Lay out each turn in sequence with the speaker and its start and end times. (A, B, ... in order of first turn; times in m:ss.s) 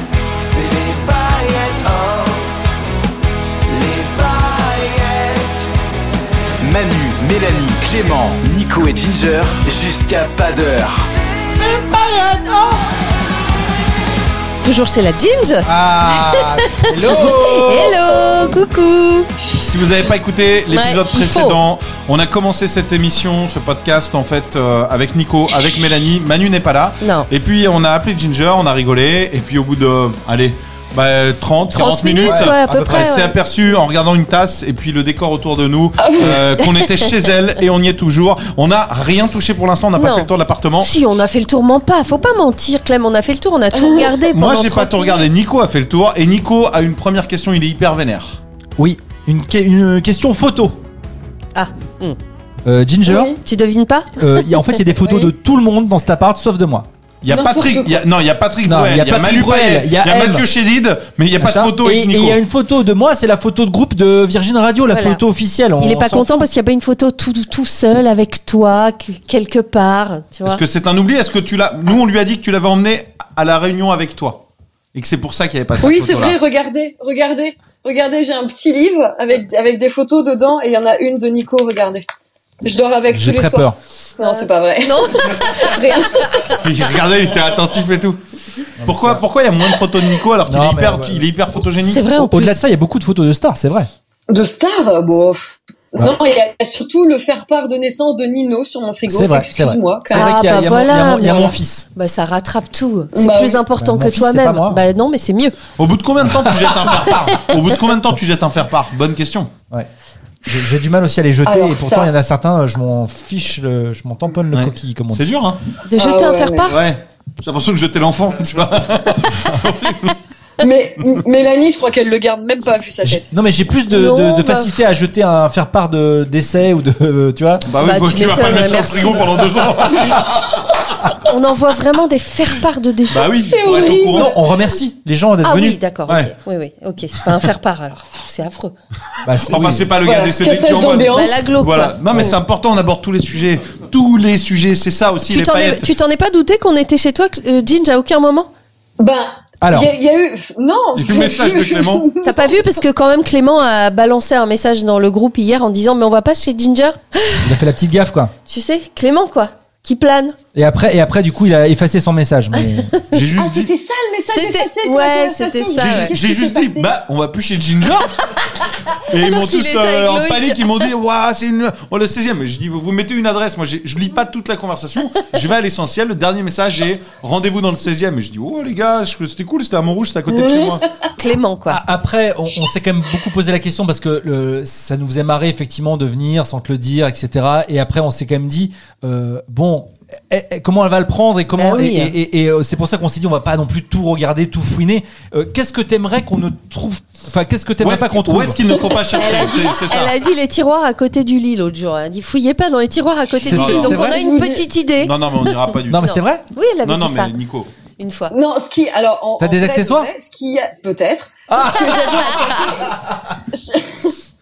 0:00.3-0:02.7 A
0:03.7-0:05.7 A
0:06.6-0:11.9 A
0:12.0-0:12.6 B
0:14.6-0:19.3 C
0:15.6-0:18.0 D
0:19.5-0:40.9 B
0:20.7-0:21.6 C
0:27.0-0:27.3 C
0:31.7-0:33.4 C
0:32.2-0:33.1 D
0:36.0-0:36.4 E
0:36.7-0:37.1 C
0:40.0-0:45.3 C
0:43.7-0:44.1 E
0:44.3-0:48.4 B
0:48.8-0:50.8 D
0:51.5-0:52.2 C
0:52.6-0:53.4 D
0:53.0-0:53.4 E
0:53.4-0:54.7 C
0:54.2-0:56.9 D
0:55.0-0:55.3 E
0:57.2-1:02.4 B
0:57.3-0:58.0 E
0:58.6-1:00.5 D
1:01.4-1:06.3 D
1:04.9-1:05.2 C
1:05.8-1:10.6 C
1:10.4-1:16.4 B
1:15.8-1:22.0 E
1:22.6-1:26.5 E
1:23.1-1:23.8 D
1:24.2-1:26.6 C
1:26.5-1:28.2 B
1:28.8-1:29.2 D
1:28.8-1:32.1 B
1:30.4-1:31.2 D
1:31.8-1:32.6 C
1:32.2-1:33.9 D
1:34.3-1:40.7 E
1:39.1-1:41.9 D
1:40.1-1:45.6 C
1:43.1-1:43.6 E
1:43.8-1:44.8 D
1:45.8-1:49.5 B
1:46.3-1:46.9 D
1:47.1-1:47.5 C
1:50.4-1:55.2 D
1:51.4-1:52.1 E
1:54.5-1:55.6 B
1:55.8-1:56.8 C
1:56.0-1:56.7 E
1:56.6-2:00.2 B
2:00.6-2:03.3 E
2:03.0-2:07.7 D
2:03.9-2:04.8 C
2:07.6-2:11.1 B
2:07.8-2:09.4 C
2:11.2-2:13.3 C
2:13.1-2:14.3 B
2:13.4-2:14.5 E
2:14.1-2:15.8 D
2:15.4-2:18.7 C
2:16.1-2:16.3 B
2:19.2-2:19.9 D
2:19.5-2:25.9 B
2:20.0-2:21.4 E
2:21.1-2:22.4 C
2:25.3-2:28.5 C
2:29.0-2:32.5 E
2:29.6-2:29.9 D
2:30.9-2:32.1 B
2:32.2-2:37.6 C
2:37.4-2:38.3 D
2:38.5-2:40.4 C
2:40.5-2:42.9 D
2:42.6-2:43.3 C
2:43.1-2:43.7 B
2:43.4-2:46.9 E
2:44.3-2:46.1 C
2:45.8-2:48.4 B
2:49.1-3:00.8 B
2:49.1-2:50.9 C
3:00.4-3:01.0 E
3:01.2-3:01.8 C
3:01.7-3:18.7 D
3:11.6-3:12.2 C
3:17.8-3:20.1 B
3:18.7-3:19.6 E
3:19.1-3:25.1 C
3:23.4-3:24.0 B
3:23.4-3:24.2 D
3:23.8-3:24.7 E
3:25.0-3:26.2 B
3:25.9-3:26.4 D
3:26.0-3:27.3 C
3:26.8-3:27.7 B
3:28.0-3:28.3 C
3:28.3-3:34.2 E
3:29.4-3:30.1 D
3:31.5-3:33.1 D
3:32.0-3:32.7 C